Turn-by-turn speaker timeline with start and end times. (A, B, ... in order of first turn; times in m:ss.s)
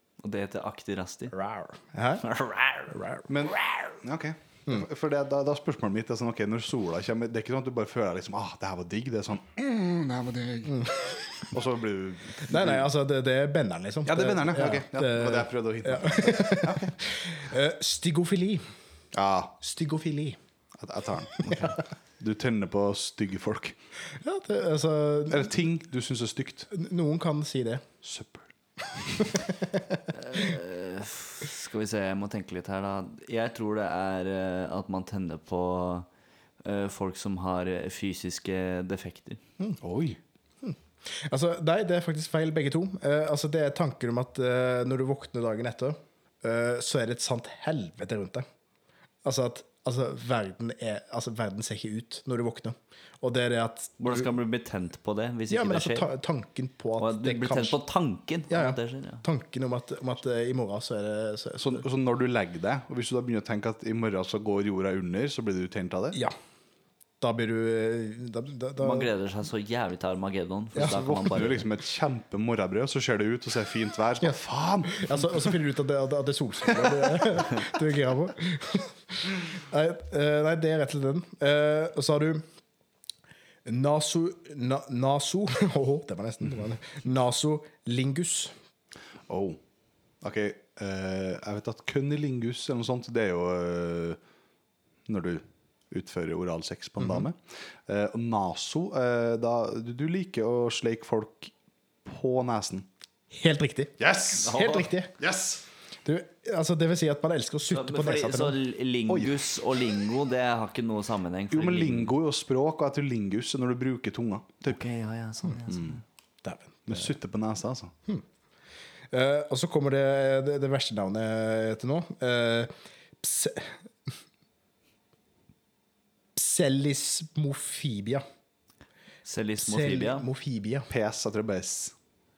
0:00.2-0:01.4 A
0:01.3-0:02.2 B
0:02.2-0:03.0 A
0:02.9-0:03.2 B
0:03.3-0:10.8 C
0:10.6-0:11.4 B
0:11.5-0:12.9 C
0:12.5-0:18.6 B
0:14.1-0:17.0 C
0:19.1-0:19.6 C
0:19.6-0:20.4 B
0:20.8-0:21.6 C
0:21.4-0:21.8 A
0:22.2-0:23.8 C
0:24.2-0:25.5 B
0:25.3-0:26.7 C
0:26.7-0:27.8 B
0:28.0-0:28.5 C
0:29.2-0:30.0 B
0:30.1-0:36.1 A
0:36.6-0:39.4 A
0:39.8-0:40.2 C
0:40.6-0:48.5 B
0:49.2-0:54.3 B
0:54.0-0:56.1 A
0:55.5-0:57.8 B
0:57.0-0:59.2 A
0:58.5-1:01.8 B
1:01.6-1:06.2 C
1:07.2-1:09.1 B
1:08.8-1:11.6 A
1:10.8-1:15.6 C
1:14.9-1:22.4 B
1:16.8-1:17.4 C
1:23.7-1:28.5 B
1:29.3-1:29.6 C
1:30.2-1:34.2 C
1:35.1-1:41.5 C
1:37.0-1:37.3 B
1:42.0-1:42.9 C
1:43.3-1:45.1 B
1:44.0-1:44.6 C
1:44.4-1:44.9 A
1:45.2-1:45.6 C
1:46.0-1:48.6 B
1:47.7-1:52.1 A
1:49.1-1:49.5 C
1:51.5-1:54.8 C
1:54.7-1:56.0 A
1:55.7-1:56.0 C
1:56.4-1:57.1 B
1:56.9-1:57.9 C
1:59.1-2:04.1 B
2:06.4-2:08.2 B
2:09.3-2:10.3 A
2:09.6-2:10.9 B
2:10.9-2:12.0 C